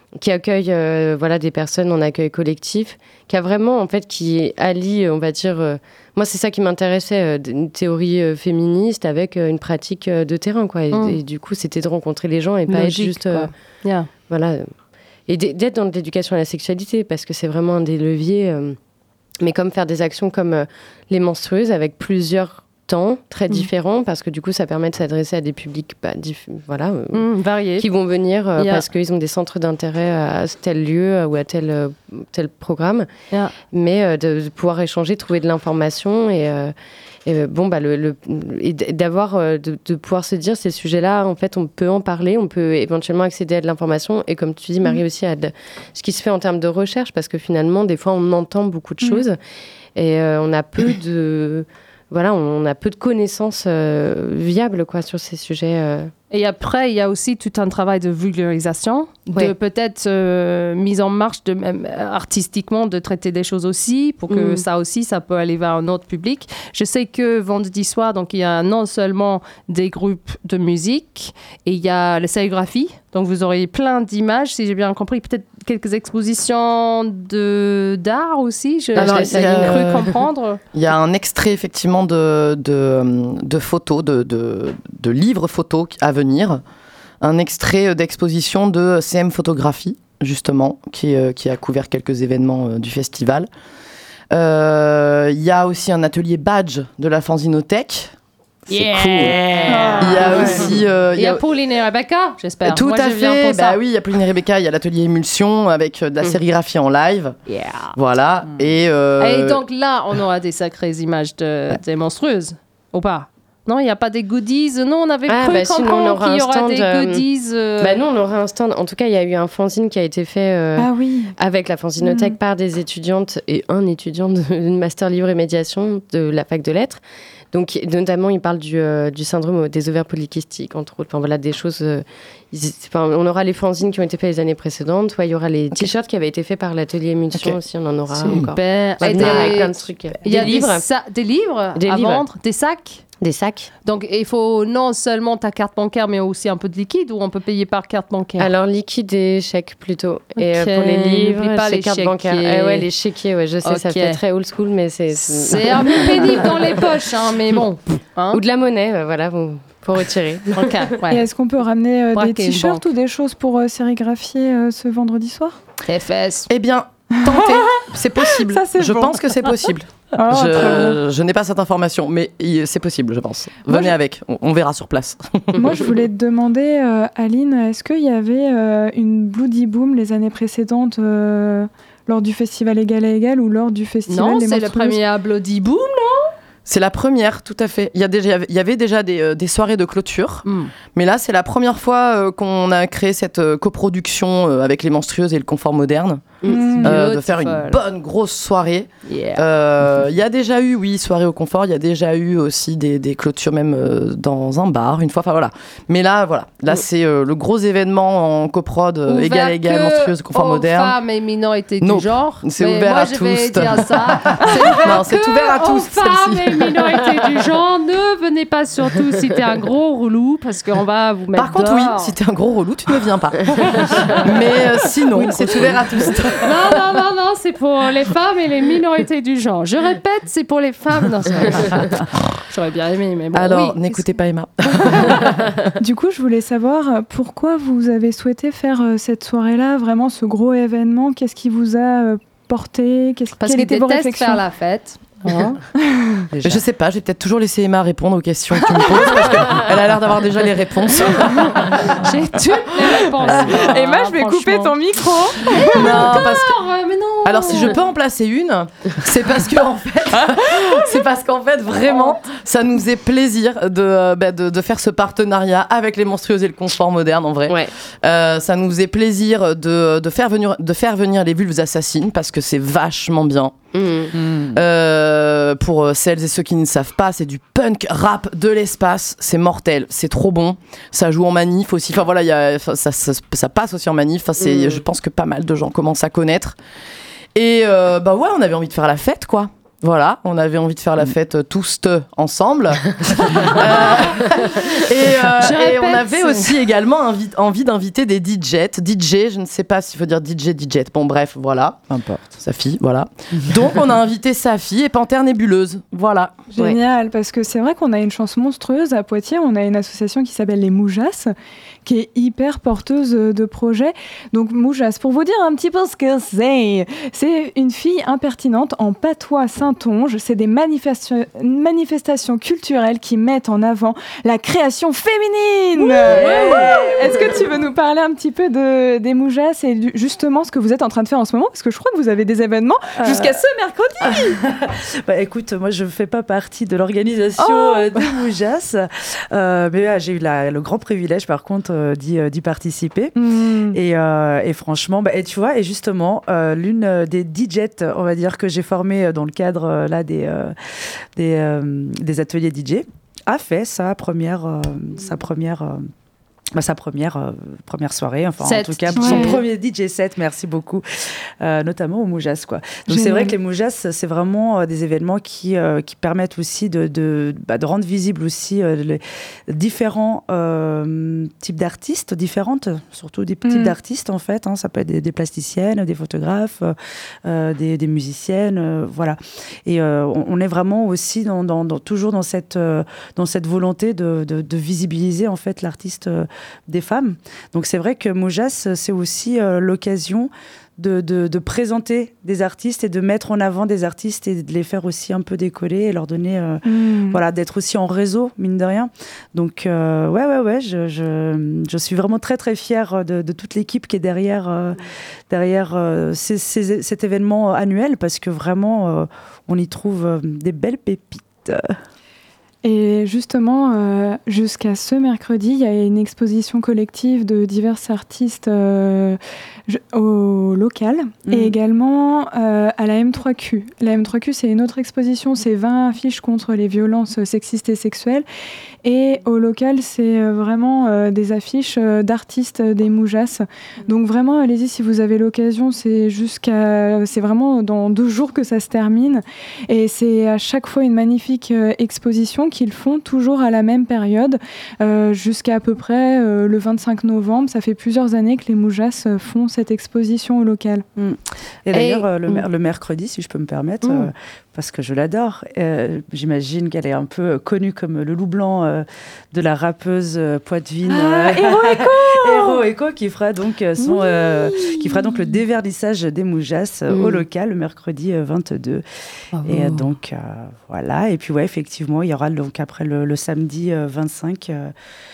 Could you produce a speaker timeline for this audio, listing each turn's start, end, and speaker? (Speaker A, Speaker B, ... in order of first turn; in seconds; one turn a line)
Speaker A: 0.1-13.5
Speaker B: 10.9-11.2
Speaker B: 12.7-14.1
Speaker A: 14.3-14.7
Speaker A: 15.3-18.8
Speaker A: 19.4-33.1
Speaker B: 27.1-27.9
Speaker B: 28.6-28.8
Speaker A: 33.7-36.7
Speaker A: 37.2-49.4
Speaker A: 50.0-56.1
Speaker B: 56.3-80.6
Speaker A: 64.3-64.6
Speaker C: 78.9-80.1
Speaker A: 79.0-80.1
Speaker C: 80.7-86.6
Speaker C: 87.2-93.5
Speaker C: 94.3-98.1
Speaker C: 98.7-101.4
Speaker B: 98.7-103.8
Speaker D: 99.7-100.7
Speaker C: 102.6-107.3
Speaker B: 107.5-107.9
Speaker C: 107.9-109.6
Speaker B: 109.2-118.0
Speaker A: 115.3-117.2
Speaker A: 117.8-127.0
Speaker D: 120.8-121.3
Speaker A: 127.5-140.8
Speaker C: 137.3-137.6
Speaker C: 138.2-138.5
Speaker B: 138.2-143.0
Speaker C: 139.0-139.5
Speaker A: 141.8-142.2
Speaker A: 143.2-143.7
Speaker B: 143.8-148.5
Speaker A: 148.4-156.8
Speaker B: 150.4-152.9
Speaker B: 153.6-154.2
Speaker B: 155.2-158.4
Speaker A: 158.3-160.9
Speaker B: 160.5-161.2
Speaker D: 161.1-165.6
Speaker B: 162.1-162.9
Speaker B: 165.8-166.5
Speaker C: 166.5-175.9
Speaker D: 167.1-171.0
Speaker D: 173.7-173.9
Speaker D: 175.6-185.0
Speaker B: 184.1-186.3
Speaker C: 186.7-211.0
Speaker B: 190.4-190.7
Speaker A: 196.4-196.7
Speaker D: 196.4-197.0
Speaker B: 196.5-197.8
Speaker B: 199.1-199.4
Speaker B: 209.1-222.2
Speaker C: 211.8-216.8
Speaker C: 221.3-226.8
Speaker B: 225.2-225.7
Speaker B: 226.3-231.9
Speaker B: 232.5-234.1
Speaker C: 233.3-235.5
Speaker D: 235.8-244.4
Speaker B: 243.4-245.6
Speaker D: 245.8-246.2
Speaker E: 246.3-246.6
Speaker C: 246.4-251.9
Speaker D: 248.7-249.4
Speaker B: 251.8-254.8
Speaker C: 252.8-253.7
Speaker D: 253.5-256.2
Speaker B: 255.4-257.8
Speaker C: 255.6-256.6
Speaker C: 257.2-273.5
Speaker A: 273.7-274.1
Speaker E: 274.2-274.5
Speaker C: 274.4-286.5
Speaker A: 284.4-284.8
Speaker C: 287.3-306.4
Speaker B: 293.5-294.2
Speaker B: 295.4-296.6
Speaker D: 306.5-311.3
Speaker D: 311.8-334.4
Speaker E: 325.8-327.4
Speaker E: 333.0-333.4
Speaker E: 334.0-343.1
Speaker D: 337.4-338.1
Speaker D: 343.2-343.8
Speaker E: 343.7-355.9
Speaker E: 356.5-411.7
Speaker B: 358.4-359.4
Speaker D: 358.9-359.4
Speaker D: 362.9-363.3
Speaker D: 373.4-373.7
Speaker D: 396.6-397.2
Speaker D: 412.6-428.2
Speaker E: 421.3-421.6
Speaker D: 428.8-450.9
Speaker E: 451.0-468.8
Speaker B: 451.7-452.4
Speaker D: 460.9-462.6
Speaker D: 463.8-465.4
Speaker A: 466.9-467.2
Speaker B: 469.3-469.9
Speaker E: 469.4-474.7